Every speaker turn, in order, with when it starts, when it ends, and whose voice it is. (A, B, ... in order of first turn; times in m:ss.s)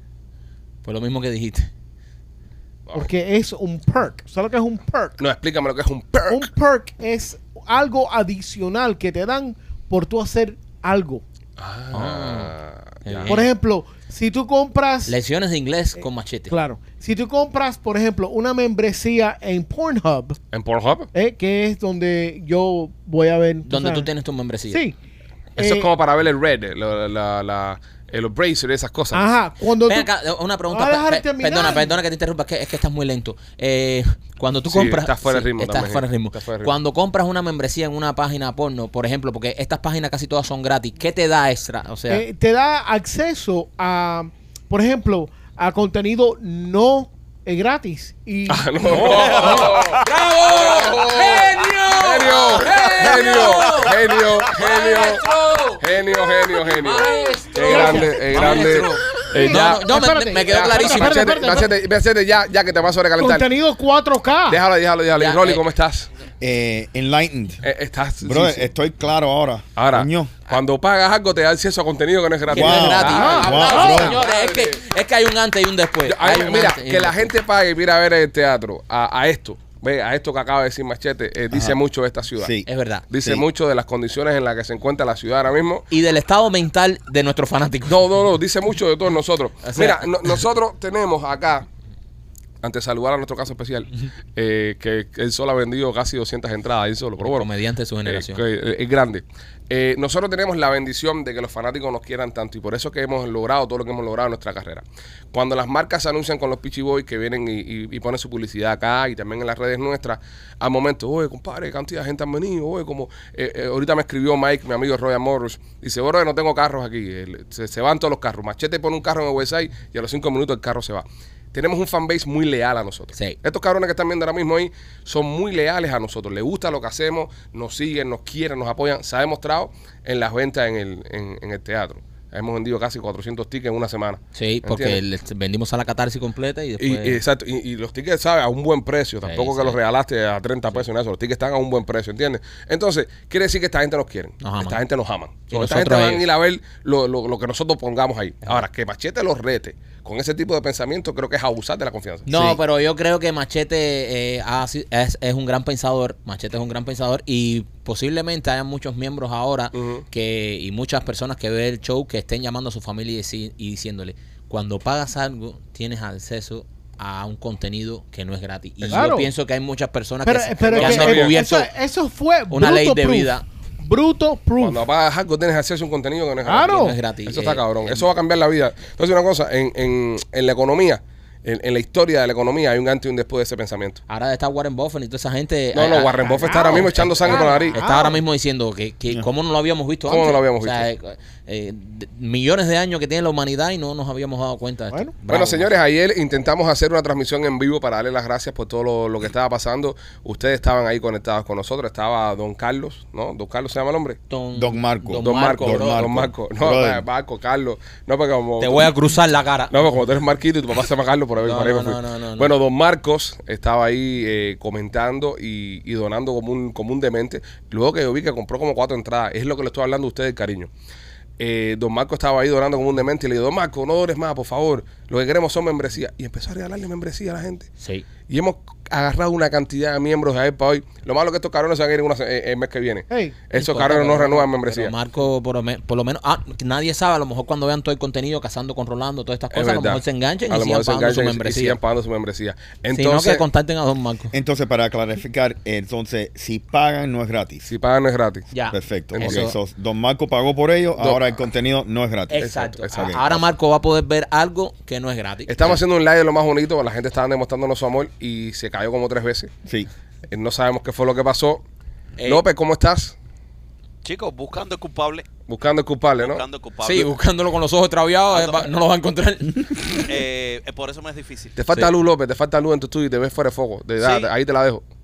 0:00.8-0:01.7 A
0:02.9-0:05.2 B
0:05.2-0:06.5 C
0:06.3-0:11.2 B
0:11.6-0:13.4 C
0:11.9-0:12.5 A
0:13.0-0:13.5 A
0:13.3-0:15.2 B
0:15.0-0:16.5 A
0:16.5-0:20.4 B
0:20.5-0:21.1 C
0:21.1-0:24.1 B
0:23.6-0:24.8 A
0:25.6-0:25.9 B
0:25.6-0:29.3 C
0:29.1-0:30.1 B
0:29.8-0:42.2 A
0:30.7-0:31.9 B
0:34.7-0:36.7 C
0:42.1-0:49.7 B
0:48.5-0:55.2 C
0:48.9-0:55.8 A
0:49.4-0:50.0 D
0:55.8-1:00.0 C
0:56.5-1:01.6 A
0:57.7-0:58.2 B
0:59.4-1:01.7 B
1:00.5-1:03.5 C
1:03.2-1:04.6 B
1:04.5-1:06.1 C
1:05.1-1:05.6 A
1:06.4-1:07.6 E
1:07.6-1:08.7 C
1:08.2-1:10.3 E
1:09.8-1:14.8 C
1:12.5-1:17.3 A
1:12.5-1:14.2 E
1:13.1-1:14.0 B
1:16.0-1:22.6 C
1:21.5-1:21.8 E
1:22.4-1:22.7 E
1:22.6-1:23.0 A
1:23.1-1:25.8 C
1:25.9-1:28.0 A
1:27.9-1:31.6 C
1:29.6-1:30.0 A
1:32.6-1:37.5 C
1:37.2-1:38.4 A
1:38.1-2:15.0 C
2:14.3-2:17.2 A
2:16.8-2:32.6 C
2:19.2-2:19.8 A
2:24.4-2:24.8 A
2:25.5-2:26.2 A
2:32.2-2:51.7 A
2:39.7-2:40.0 C
2:48.9-2:49.3 B
2:50.2-2:54.8 B
2:50.7-2:51.4 C
2:52.5-2:53.4 A
2:54.6-3:04.0 C
2:56.4-2:57.0 B
2:56.6-2:58.0 A
3:04.1-3:15.7 A
3:05.7-3:07.8 C
3:06.4-3:08.2 B
3:10.1-3:10.9 C
3:15.3-3:24.2 C
3:24.3-3:26.1 A
3:24.5-3:27.0 E
3:25.2-3:28.9 C
3:28.6-3:29.7 A
3:29.7-3:40.7 C
3:31.4-3:32.5 A
3:41.4-3:47.7 C
3:47.8-3:48.0 A
3:48.3-3:54.9 C
3:53.1-3:53.4 B
3:53.5-4:01.8 A
3:59.5-4:03.4 C
4:02.9-4:04.3 A
4:04.3-4:07.7 E
4:07.7-4:08.5 C
4:08.5-4:09.5 A
4:08.7-4:12.4 E
4:09.1-4:09.4 C
4:11.0-4:11.3 C
4:12.3-4:15.8 A
4:12.4-4:13.4 C
4:12.9-4:13.2 E
4:15.5-4:19.5 C
4:20.3-4:21.6 C
4:22.2-4:22.4 A
4:22.2-4:23.1 C
4:24.0-4:25.3 D
4:25.5-4:26.4 C
4:26.2-4:27.1 D
4:26.8-4:30.0 A
4:28.3-4:28.7 D
4:30.0-4:31.6 D
4:31.6-4:34.8 C
4:34.0-4:34.3 D